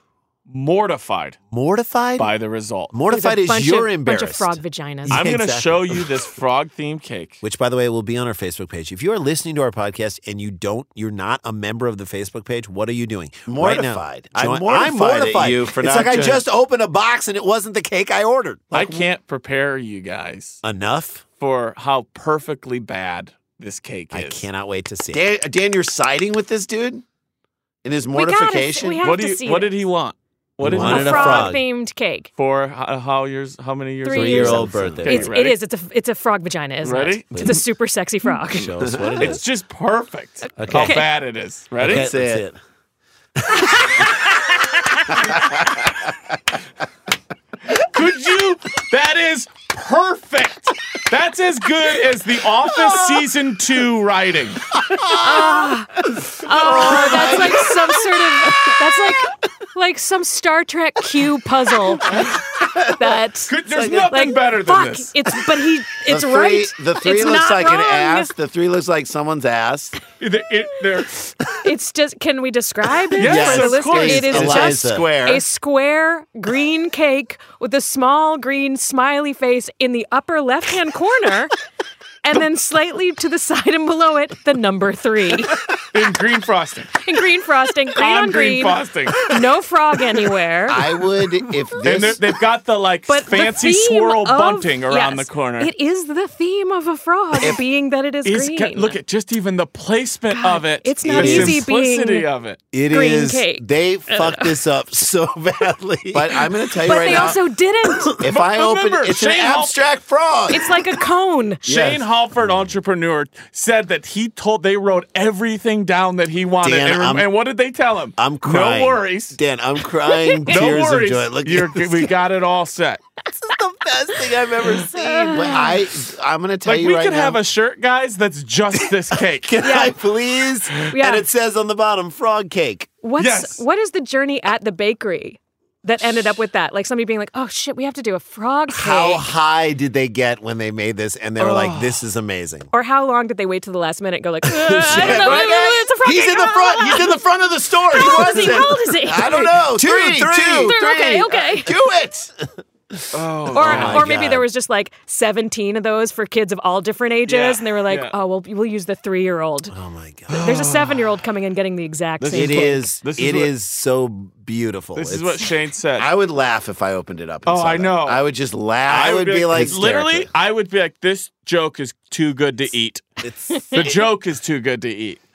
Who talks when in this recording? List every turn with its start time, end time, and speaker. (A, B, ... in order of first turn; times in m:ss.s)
0:00.5-0:01.4 A
0:01.5-0:02.3 B
0:02.2-0:02.9 A
0:02.9-0:06.1 B
0:03.1-0:05.2 C
0:05.1-0:07.4 A
0:07.4-0:18.9 B
0:13.5-0:16.4 D
0:18.7-0:20.6 A
0:18.7-0:19.0 D
0:20.6-0:21.2 B
0:21.4-0:24.4 A
0:24.1-0:25.2 B
0:25.1-0:27.0 D
0:27.8-0:29.1 D
0:28.1-0:29.7 C
0:29.0-0:31.5 A
0:30.6-0:31.6 B
0:30.8-0:32.3 C
0:32.4-0:35.6 A
0:34.0-0:38.9 C
0:34.1-0:35.3 B
0:34.7-0:35.0 D
0:36.8-0:37.6 A
0:37.3-0:37.6 B
0:38.5-0:39.4 B
0:38.8-0:39.4 D
0:39.2-0:42.1 A
0:40.6-0:41.0 B
0:40.7-0:41.0 C
0:41.8-0:42.6 B
0:41.8-0:42.4 D
0:43.4-0:43.7 B
0:43.5-0:45.2 C
0:45.3-0:45.7 D
0:47.7-0:54.7 A
0:54.9-0:55.7 D
0:55.1-1:08.3 C
0:56.5-0:58.0 D
0:56.7-0:57.4 A
1:03.5-1:05.1 A
1:03.7-1:04.1 D
1:06.1-1:10.0 D
1:10.2-1:11.3 A
1:11.6-1:21.5 C
1:13.1-1:14.5 A
1:13.2-1:15.1 B
1:13.3-1:15.4 D
1:22.2-1:25.6 C
1:25.9-1:27.1 A
1:27.0-1:30.8 C
1:27.9-1:29.3 A
1:30.7-1:32.2 D
1:31.8-1:35.7 A
1:33.1-1:39.0 C
1:38.2-1:42.6 A
1:40.3-1:42.3 C
1:41.0-1:41.6 B
1:42.7-1:47.3 B
1:42.9-1:44.6 C
1:46.1-1:47.4 D
1:46.8-1:48.2 C
1:48.2-1:50.8 D
1:48.2-1:49.8 A
1:50.5-1:51.6 C
1:51.6-1:52.0 D
1:51.6-1:59.4 A
1:52.5-1:52.7 B
1:56.6-1:57.3 B
1:58.2-2:02.1 B
2:00.1-2:00.6 C
2:00.5-2:03.0 A
2:03.3-2:05.6 B
2:04.8-2:05.8 C
2:05.2-2:07.4 D
2:06.6-2:09.6 A
2:09.4-2:12.9 B
2:09.6-2:09.9 C
2:10.9-2:11.2 C
2:13.0-2:19.3 C
2:13.2-2:13.6 A
2:18.7-2:22.7 B
2:21.4-2:22.1 A
2:22.7-2:27.2 C
2:24.5-2:27.3 B
2:24.8-2:26.3 D
2:26.8-2:32.3 D
2:27.9-2:28.7 B
2:27.9-2:29.6 C
2:29.2-2:31.3 B
2:30.5-2:31.7 C
2:33.1-2:34.1 A
2:33.5-2:39.7 C
2:33.6-2:34.4 B
2:37.3-2:38.1 A
2:39.7-2:40.6 B
2:40.3-2:41.2 A
2:40.4-2:42.9 C
2:42.2-2:43.5 A
2:42.3-2:45.4 B
2:44.9-2:46.1 A
2:46.0-2:50.0 D
2:47.4-2:48.2 A
2:48.9-2:50.3 B
2:48.9-2:53.0 A
2:53.2-2:53.9 B
2:53.5-2:53.8 C
2:53.7-2:55.2 A